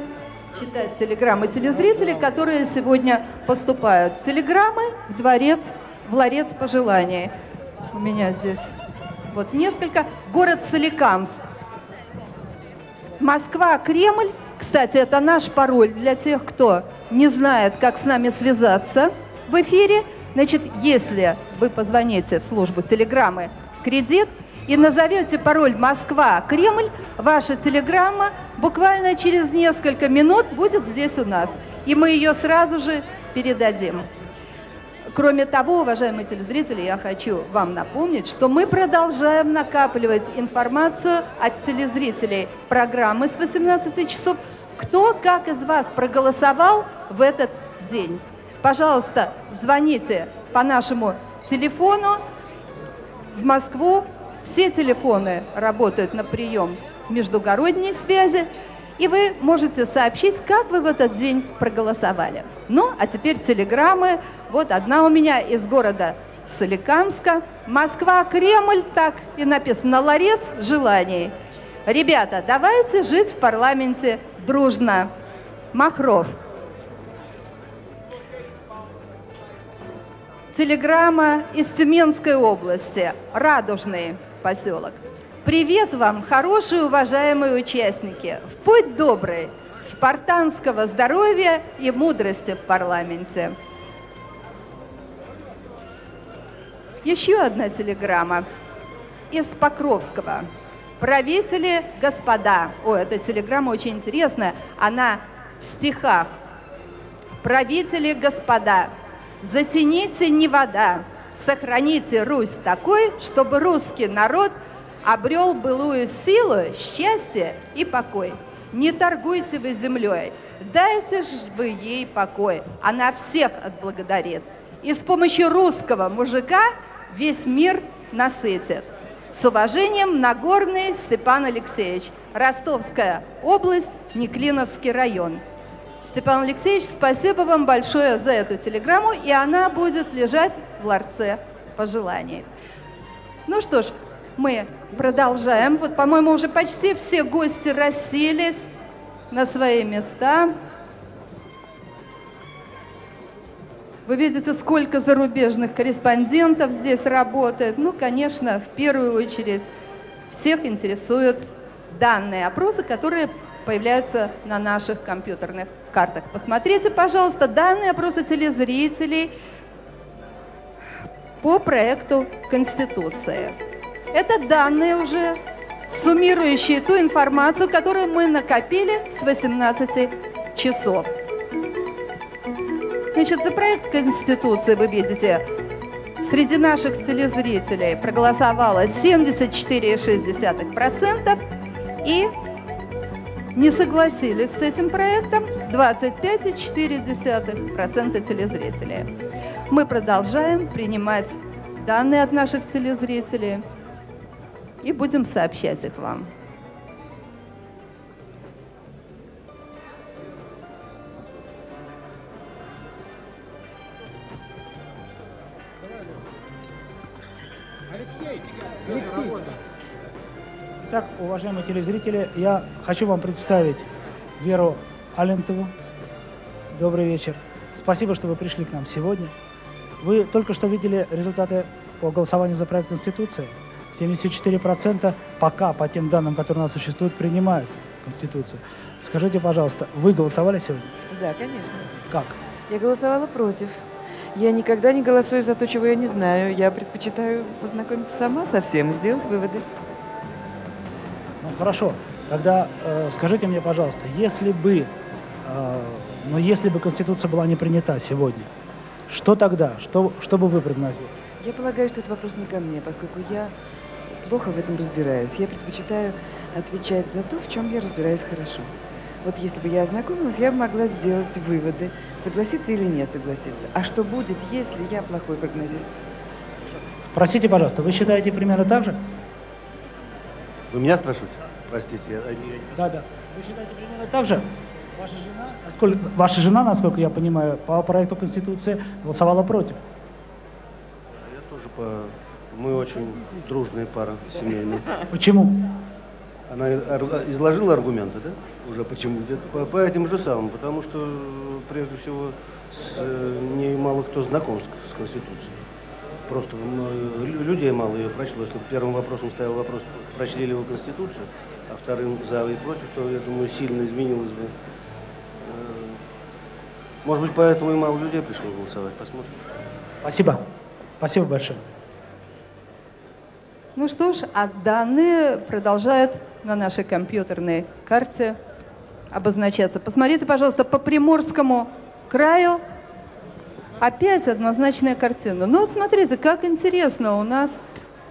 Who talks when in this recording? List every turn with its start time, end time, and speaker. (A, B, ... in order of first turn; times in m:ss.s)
0:00.5-0:07.3 A
0:07.9-0:08.6 A
0:09.3-0:11.4 A
0:13.2-0:34.1 A
0:35.1-0:52.2 A
0:53.3-1:11.3 A
1:11.8-1:15.1 A
1:15.7-1:16.4 A
1:20.5-1:33.5 A
1:37.0-1:38.4 A
1:39.3-1:40.5 A
1:41.0-1:46.4 A
1:47.4-2:15.4 A
2:16.0-2:22.4 A
2:23.5-2:28.7 A
2:29.3-2:30.5 A
2:34.1-2:39.7 A
2:40.3-2:49.3 A
2:51.4-2:53.5 A
2:54.1-3:01.1 A
3:03.1-3:05.4 A
3:06.2-3:11.4 A
3:12.0-3:12.3 A
3:13.5-3:19.1 A
3:19.7-3:23.6 A
3:24.8-3:26.3 A
3:40.8-3:43.9 B
3:44.4-3:45.7 B
3:46.7-3:49.3 B
3:50.0-4:01.0 B
4:01.1-4:01.9 C
4:02.1-4:02.4 B
4:02.7-4:09.6 C
4:11.4-4:14.9 B
4:15.4-4:18.5 B
4:19.1-4:21.1 B
4:21.4-4:23.5 C
4:24.1-4:28.7 C
4:29.2-4:35.9 C
4:37.1-4:39.0 B
4:42.7-4:44.5 B
4:45.0-4:49.8 B
4:51.4-4:54.8 D
4:55.1-4:55.6 B
4:56.5-5:05.5 D
5:06.3-5:14.5 D
5:15.5-5:15.9 D
5:17.0-5:19.3 D
5:20.0-5:20.4 B
5:21.0-5:21.6 B
5:23.8-5:28.4 A
5:29.1-5:32.6 A
5:33.8-5:37.6 A